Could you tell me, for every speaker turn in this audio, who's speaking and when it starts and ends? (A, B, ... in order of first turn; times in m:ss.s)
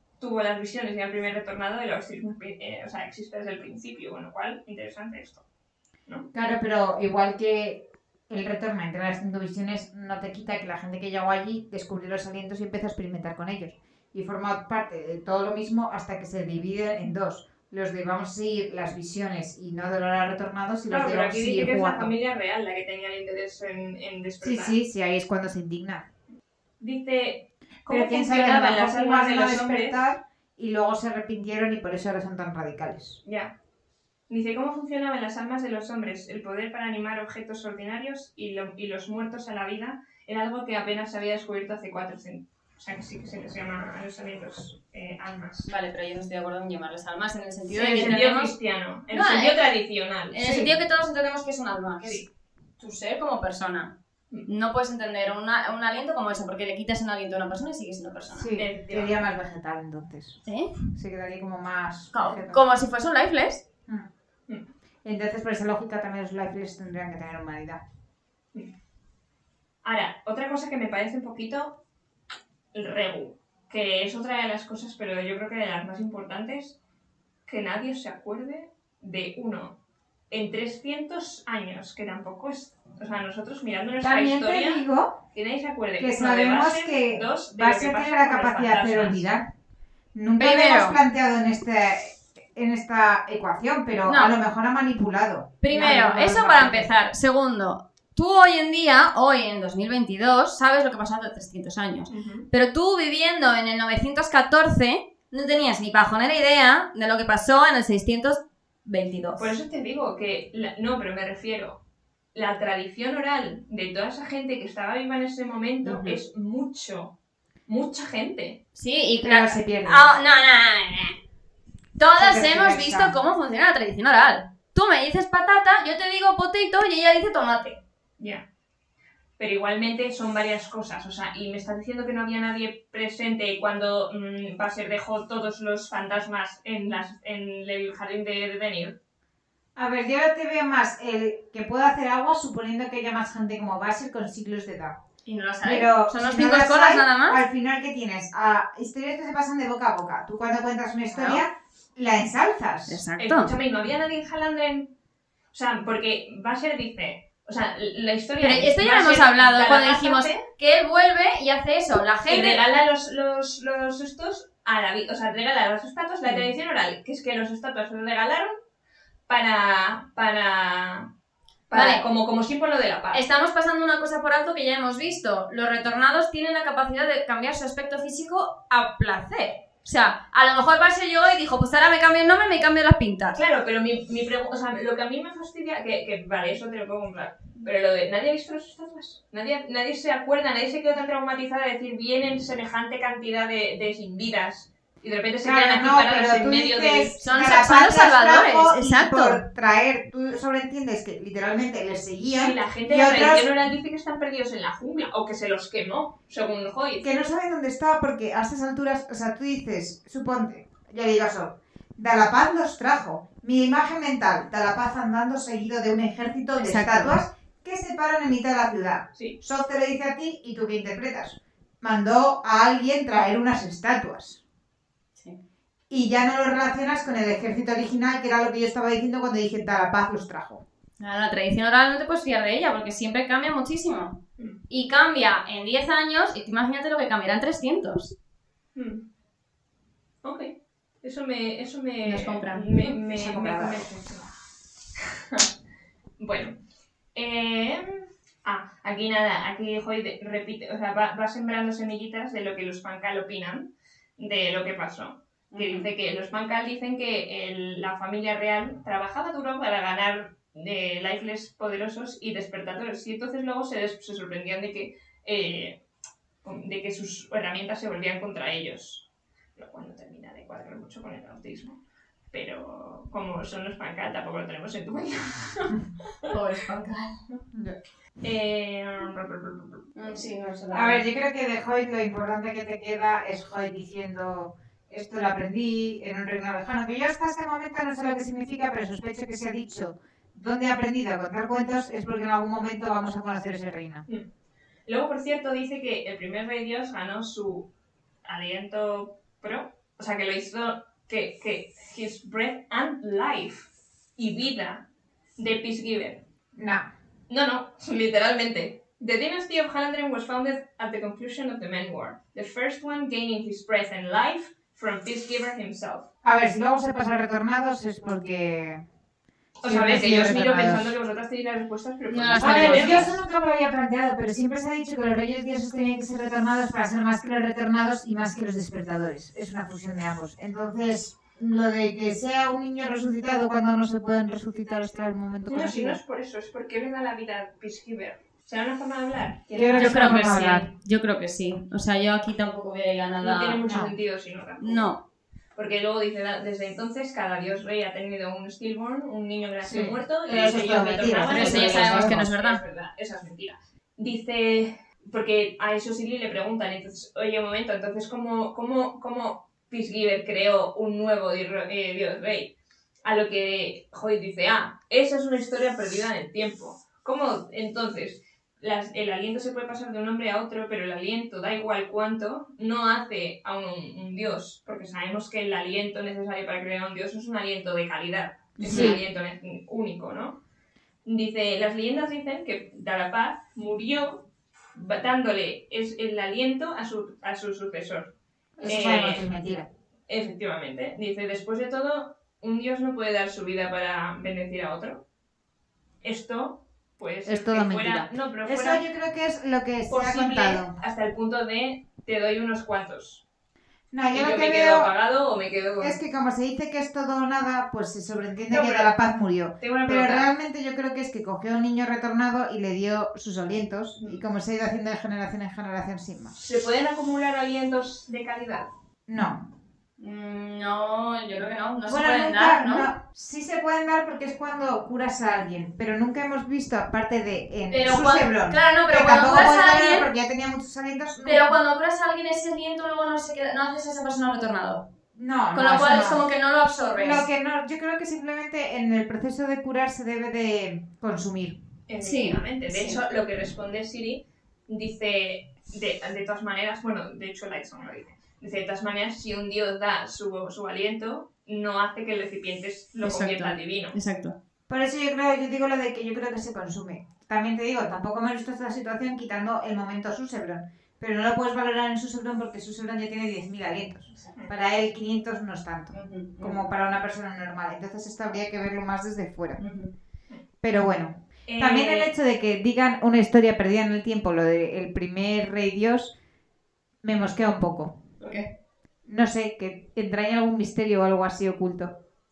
0:00.2-0:05.4 A
0:06.3-0:22.1 B
0:20.9-0:24.7 A
0:24.4-0:26.1 B
0:26.8-0:30.0 A
0:27.9-0:33.2 B
0:33.2-0:33.5 A
0:34.3-0:45.7 A
0:45.7-0:48.5 C
0:47.7-0:50.4 A
0:49.1-0:49.6 C
0:50.3-0:52.2 C
0:50.4-0:50.7 B
0:52.0-0:52.3 A
0:52.8-0:53.9 C
0:54.4-0:58.5 C
0:58.3-1:00.4 B
0:58.6-0:59.2 A
1:00.4-1:00.8 C
1:00.9-1:02.6 B
1:02.1-1:03.6 C
1:05.0-1:07.8 B
1:09.8-1:11.8 A
1:12.7-1:16.8 A
1:17.5-1:19.8 A
1:20.3-1:29.2 A
1:24.0-1:25.2 B
1:26.0-1:29.5 B
1:30.1-1:36.9 B
1:30.4-1:31.0 C
1:34.1-1:34.3 C
1:35.6-1:49.5 C
1:42.1-1:42.5 A
1:49.4-1:51.8 A
1:52.3-1:57.1 A
1:55.8-1:56.2 C
1:57.7-1:58.6 A
1:58.7-2:01.2 C
1:59.2-2:00.1 B
2:02.0-2:07.8 C
2:02.2-2:03.2 B
2:08.2-2:08.4 A
2:09.4-2:19.0 A
2:19.8-2:25.0 B
2:25.2-2:27.4 C
2:25.6-2:33.0 B
2:31.1-2:31.4 C
2:32.9-2:33.5 C
2:33.2-2:34.9 A
2:35.5-2:40.4 A
2:38.4-2:42.6 C
2:42.3-2:48.6 A
2:49.3-2:51.1 A
2:51.7-2:53.2 A
2:51.7-2:52.0 C
2:53.1-3:03.4 C
3:03.3-3:17.2 A
3:15.4-3:23.5 B
3:17.2-3:19.4 C
3:22.4-3:27.1 A
3:27.0-3:44.4 B
3:36.6-3:37.2 C
3:45.9-3:50.6 B
3:51.0-3:58.1 C
3:58.7-3:59.0 A
4:00.2-4:04.3 A
4:02.0-4:02.8 C
4:03.1-4:03.9 B
4:05.0-4:05.5 A
4:06.2-4:06.5 A
4:07.1-4:25.8 A
4:15.5-4:15.9 C
4:26.4-4:31.8 A
4:32.3-4:36.3 A
4:36.3-4:37.2 C
4:37.5-4:37.8 B
4:38.2-4:40.2 A
4:39.9-4:41.0 C
4:40.7-4:54.0 B
4:54.9-4:57.7 A
4:58.2-5:04.8 A
5:05.4-5:06.2 A
5:06.5-5:06.9 B
5:07.3-5:16.0 A
5:16.2-5:18.8 B
5:19.6-5:23.1 A
5:19.6-5:21.0 B
5:22.1-5:23.1 C
5:22.4-5:36.0 B
5:35.5-5:40.6 A
5:39.5-5:40.7 B
5:39.7-5:43.6 C
5:43.2-5:44.9 A
5:43.6-5:43.9 B
5:44.6-5:45.0 C
5:45.5-6:02.5 A
5:49.6-5:52.2 B
5:51.2-5:52.6 C
6:03.0-6:20.4 A
6:18.6-6:19.0 C
6:18.6-6:19.0 B
6:21.0-6:28.1 A
6:28.6-6:29.7 B
6:28.6-6:29.2 A
6:30.1-6:35.0 A
6:36.0-6:38.8 A
6:37.2-6:40.7 B
6:39.9-6:43.2 A
6:43.9-6:44.9 B
6:44.1-6:46.0 A
6:45.8-6:56.3 B
6:48.5-6:48.9 A
6:49.6-6:50.3 A
6:56.3-6:58.7 A
6:59.1-6:59.5 B
7:00.0-7:02.9 C
7:01.9-7:11.5 B
7:07.7-7:10.1 C
7:11.2-7:14.8 C
7:15.1-7:16.2 B
7:15.5-7:17.2 C
7:17.0-7:21.6 B
7:21.9-7:33.9 A
7:22.0-7:23.0 C
7:33.0-7:34.4 C
7:34.7-7:49.6 B
7:45.9-7:46.6 C
7:49.6-7:49.9 C
7:50.6-7:56.1 B
7:51.5-7:52.1 A
7:57.0-7:58.0 B
7:58.2-7:58.5 C
7:59.0-8:01.9 B